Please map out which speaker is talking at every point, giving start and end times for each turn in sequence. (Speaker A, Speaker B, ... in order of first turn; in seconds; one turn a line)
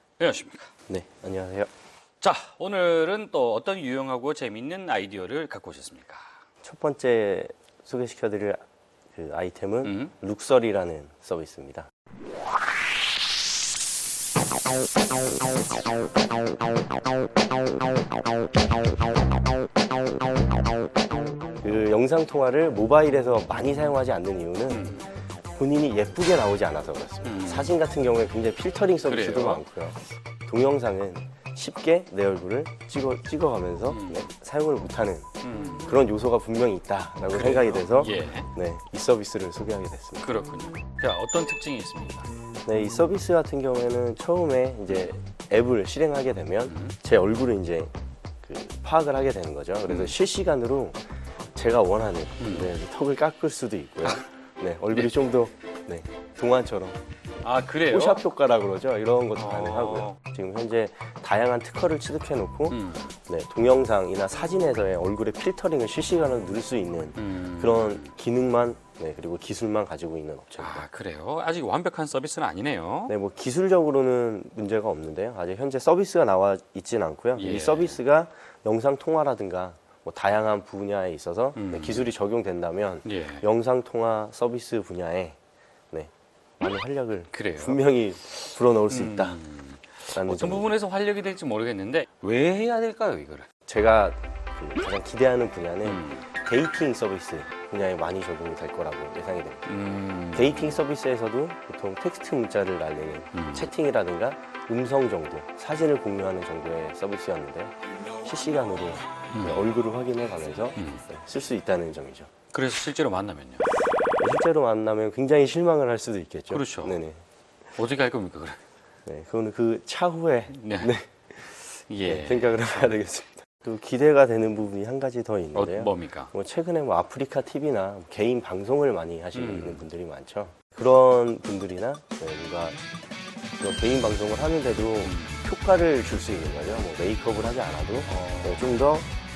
Speaker A: 0.2-0.7
Speaker B: 0.9-1.7
Speaker A: 2.2-6.2
Speaker B: 6.6-11.9
Speaker A: 9.8-10.1
Speaker B: 21.6-24.9
Speaker A: 24.7-25.1
Speaker B: 25.5-35.3
Speaker A: 27.2-27.7
Speaker A: 29.0-29.6
Speaker A: 33.9-34.2
Speaker A: 35.4-35.9
Speaker B: 35.8-40.3
Speaker A: 37.3-38.5
Speaker A: 40.2-42.3
Speaker B: 42.6-51.0
Speaker A: 46.7-46.9
Speaker A: 49.9-50.1
Speaker B: 51.5-57.0
Speaker A: 52.4-52.7
Speaker A: 57.4-58.2
Speaker B: 57.8-70.8
Speaker A: 59.4-60.2
Speaker A: 62.7-63.1
Speaker A: 67.2-68.1
Speaker A: 70.6-73.1
Speaker B: 73.1-85.4
Speaker A: 77.3-78.0
Speaker A: 81.5-82.1
Speaker A: 83.0-83.4
Speaker B: 85.9-89.4
Speaker A: 87.3-93.5
Speaker B: 90.1-90.7
Speaker B: 93.7-99.7
Speaker A: 95.8-96.3
Speaker A: 99.7-100.8
Speaker B: 100.3-112.3
Speaker A: 103.3-103.7
Speaker A: 109.3-109.7
Speaker A: 110.8-111.0
Speaker A: 112.5-113.6
Speaker B: 114.2-117.2
Speaker A: 116.5-117.0
Speaker A: 117.8-118.6
Speaker B: 119.0-121.5
Speaker A: 120.5-120.9
Speaker A: 121.6-122.8
Speaker B: 122.0-132.8
Speaker A: 125.5-126.3
Speaker A: 129.3-129.8
Speaker B: 133.6-139.1
Speaker A: 135.0-135.4
Speaker A: 138.1-138.8